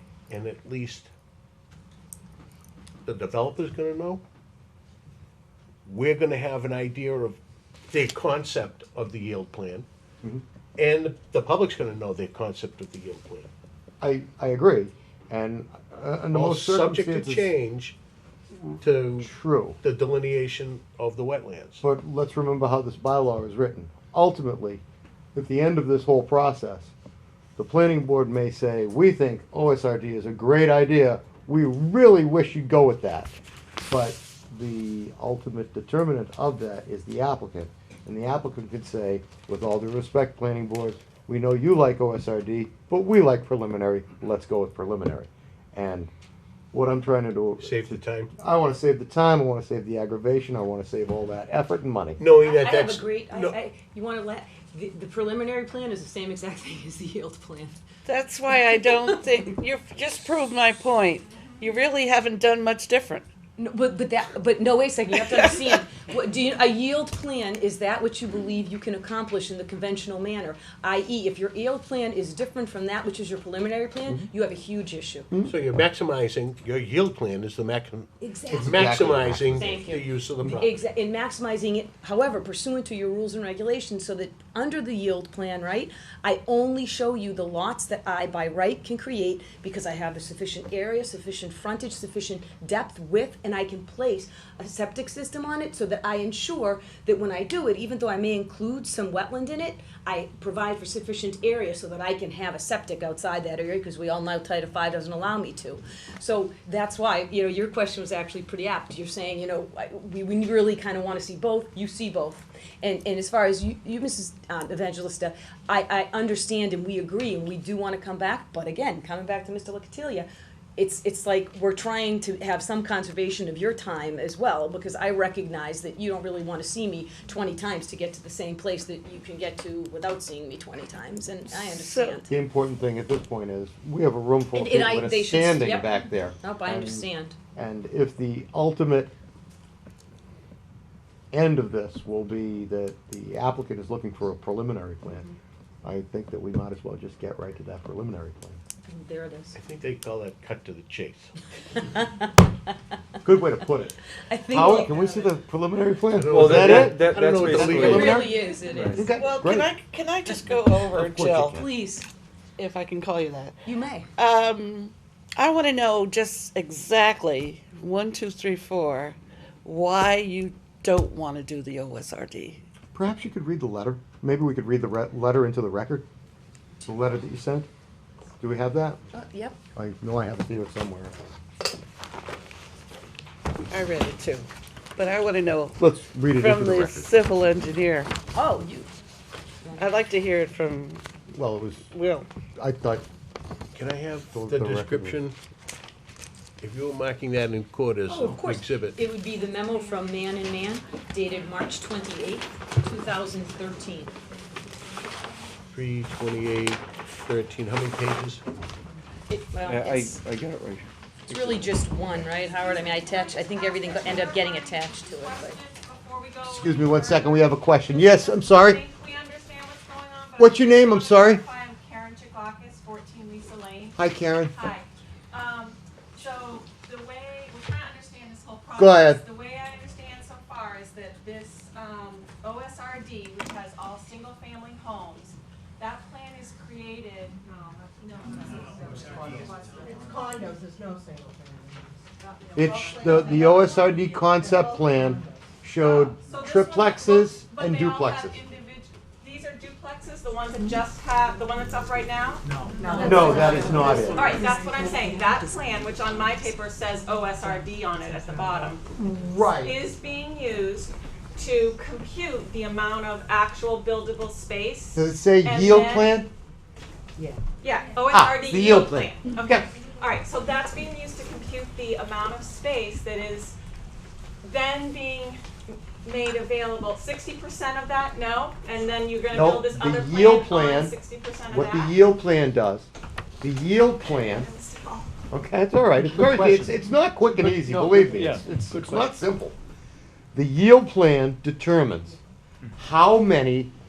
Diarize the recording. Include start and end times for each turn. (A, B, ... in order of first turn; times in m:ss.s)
0:00.3-0:01.1 A
0:03.0-0:04.2 A
0:05.8-0:09.9 A
0:10.8-0:13.5 A
0:14.0-0:17.5 B
0:16.3-0:18.0 A
0:18.8-0:21.8 A
0:19.2-0:19.8 B
0:21.8-0:24.8 B
0:25.3-0:26.9 B
0:27.6-0:33.3 B
0:33.9-0:46.1 B
0:46.7-0:52.2 B
0:47.6-0:48.3 A
0:52.2-0:53.6 A
0:52.4-0:57.8 C
0:58.0-1:03.2 D
0:58.5-0:59.1 C
1:01.3-1:01.7 E
1:03.6-1:15.3 C
1:05.1-1:05.8 D
1:15.5-1:20.8 A
1:18.2-2:12.3 C
1:18.5-1:19.8 B
2:11.5-2:12.2 D
2:12.3-2:19.1 B
2:14.5-2:17.4 C
2:21.3-2:25.3 B
2:25.8-2:28.6 B
2:28.8-2:29.6 C
2:29.6-2:31.3 A
2:31.7-2:32.3 C
2:33.2-2:34.0 B
2:34.2-2:35.3 C
2:34.5-2:39.7 B
2:36.1-2:38.2 A
2:36.3-2:39.1 F
2:37.6-2:39.2 C
2:39.2-2:41.6 D
2:40.9-2:41.7 B
2:41.5-2:42.0 C
2:42.6-2:52.6 D
2:43.6-2:44.1 C
2:52.9-2:56.1 B
2:56.8-2:57.7 B
2:58.4-2:59.0 B
2:59.1-2:59.6 C
2:59.7-3:01.1 B
3:03.7-3:08.1 D
3:05.8-3:07.1 B
3:08.3-3:08.9 C
3:09.6-3:09.9 C
3:09.8-3:11.0 D
3:11.3-3:11.9 B
3:11.9-3:12.3 D
3:12.6-3:13.0 B
3:13.7-3:15.4 A
3:14.3-3:15.2 B
3:16.6-3:19.0 A
3:18.1-3:24.1 C
3:19.2-3:20.7 E
3:21.2-3:21.7 E
3:25.7-3:28.4 A
3:29.3-3:30.2 C
3:29.6-3:31.6 F
3:31.3-3:35.6 C
3:32.4-4:00.1 E
3:36.4-3:38.8 B
3:40.4-3:41.4 B
3:44.0-3:44.6 B
3:48.7-3:49.2 B
3:58.3-4:02.0 G
3:58.4-4:00.2 F
4:02.2-4:04.0 E
4:02.5-4:08.4 B
4:02.6-4:05.4 G
4:05.8-4:18.8 E
4:12.5-4:14.6 F
4:12.6-4:15.6 G
4:13.0-4:14.3 B
4:13.2-4:14.1 C
4:19.1-4:19.8 B
4:19.6-4:26.2 E
4:24.9-4:26.3 B
4:27.6-4:33.6 E
4:28.1-4:29.7 B
4:34.4-4:42.0 E
4:39.3-4:42.9 B
4:43.4-4:44.5 B
4:44.0-4:45.1 E
4:45.3-4:49.6 B
4:46.0-4:46.8 F
4:47.3-4:49.2 F
4:50.3-4:52.2 B
4:52.8-4:53.7 B